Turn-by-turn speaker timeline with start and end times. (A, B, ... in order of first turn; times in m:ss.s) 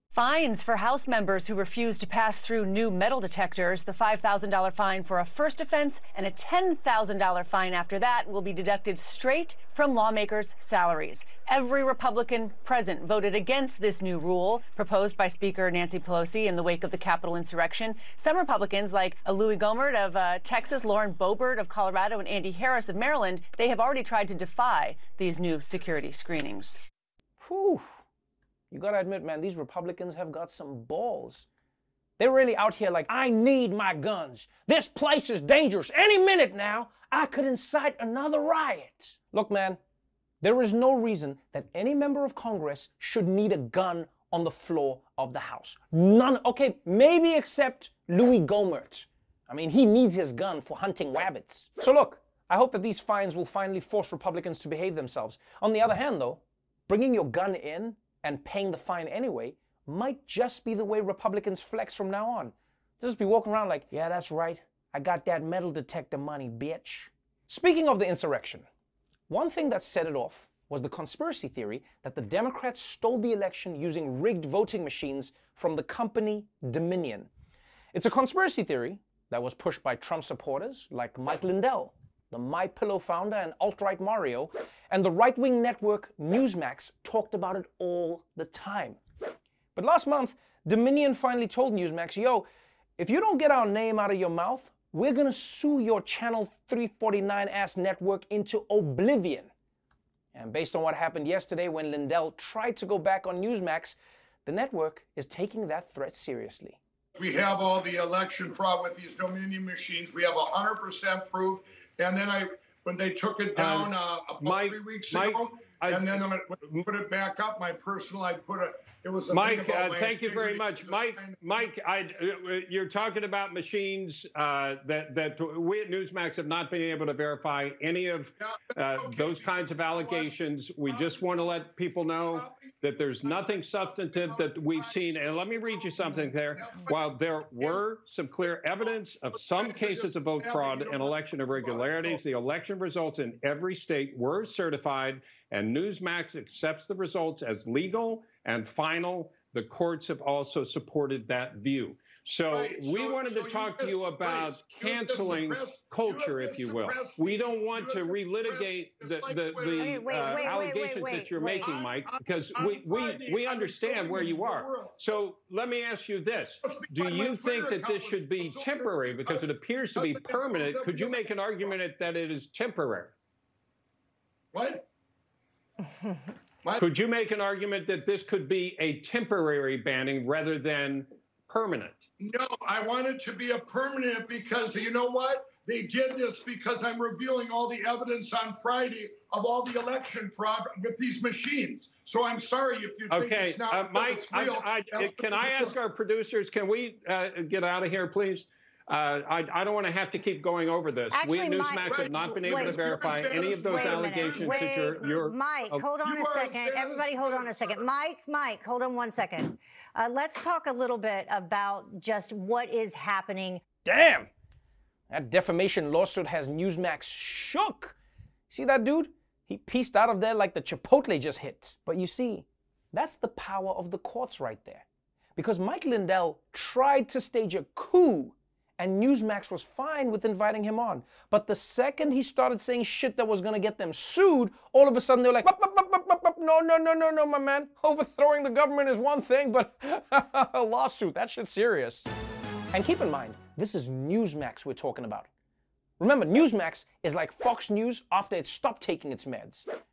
0:00.1-0:26.8 A
0:27.4-0:28.0 B
0:28.7-0:31.5 B
0:32.2-0:39.8 B
0:40.4-1:08.7 B
1:09.3-1:17.3 B
1:17.9-1:29.0 B
1:29.8-1:32.4 B
1:33.0-1:39.5 B
1:40.3-1:46.8 B
1:47.2-2:01.4 C
1:53.6-1:56.8 D
1:59.3-2:53.2 D
2:08.4-2:10.3 C
2:10.8-2:11.6 C
2:12.3-2:15.0 C
2:15.6-2:17.0 C
2:18.8-2:22.2 C
2:32.5-2:40.6 C
2:39.8-2:41.8 E
2:41.6-2:45.0 C
2:46.6-2:51.8 C
2:54.5-2:54.9 C
2:56.8-3:02.0 D
3:02.2-3:15.8 C
3:13.1-3:25.9 D
3:21.1-3:33.6 E
3:21.9-3:25.2 C
3:26.0-3:27.8 C
3:33.8-3:34.3 B
3:35.1-3:38.0 B
3:38.5-4:02.1 B
4:02.7-4:05.3 B
4:06.0-4:09.7 B